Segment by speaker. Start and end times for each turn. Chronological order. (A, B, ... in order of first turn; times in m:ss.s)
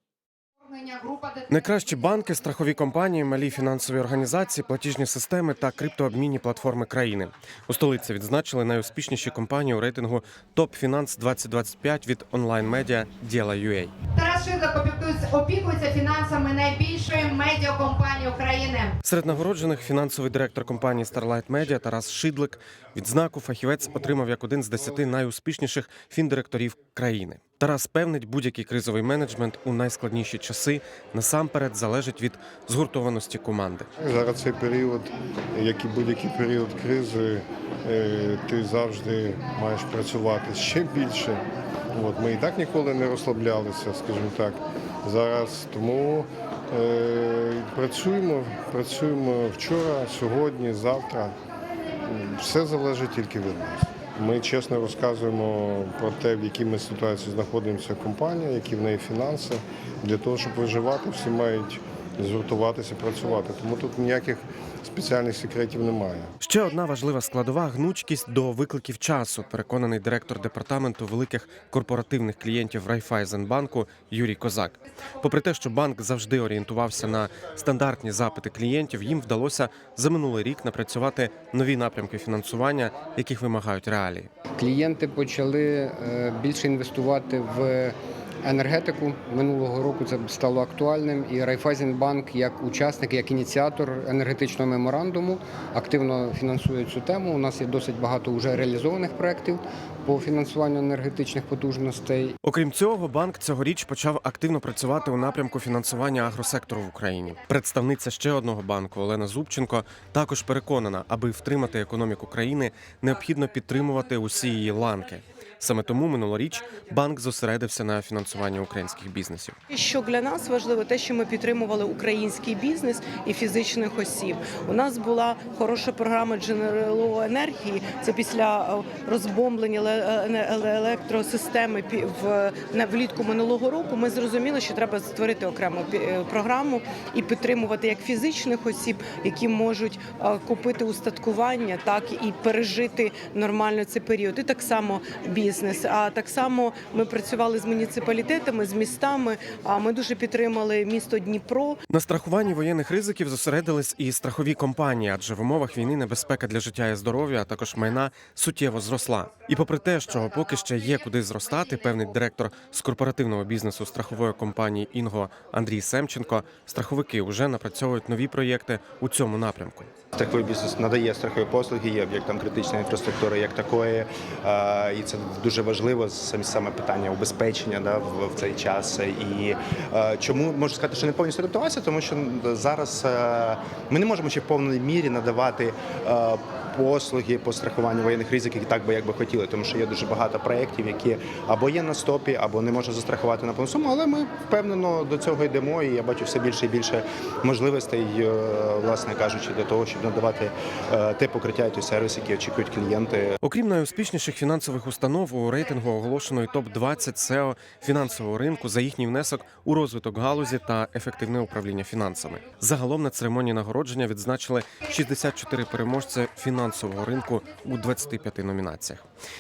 0:00.7-0:01.4 A
0:01.5-0:14.0 B
0:14.2-0:18.9 A
0:19.0-0:33.9 B
0:34.0-0:41.4 C
0:41.9-0:51.3 C
0:52.0-1:06.3 C
1:06.4-1:24.3 B
1:24.6-1:42.4 D
1:42.4-1:59.6 B
1:59.7-2:31.8 E
2:31.9-2:49.9 B
2:50.2-3:23.4 F
3:23.4-3:39.0 B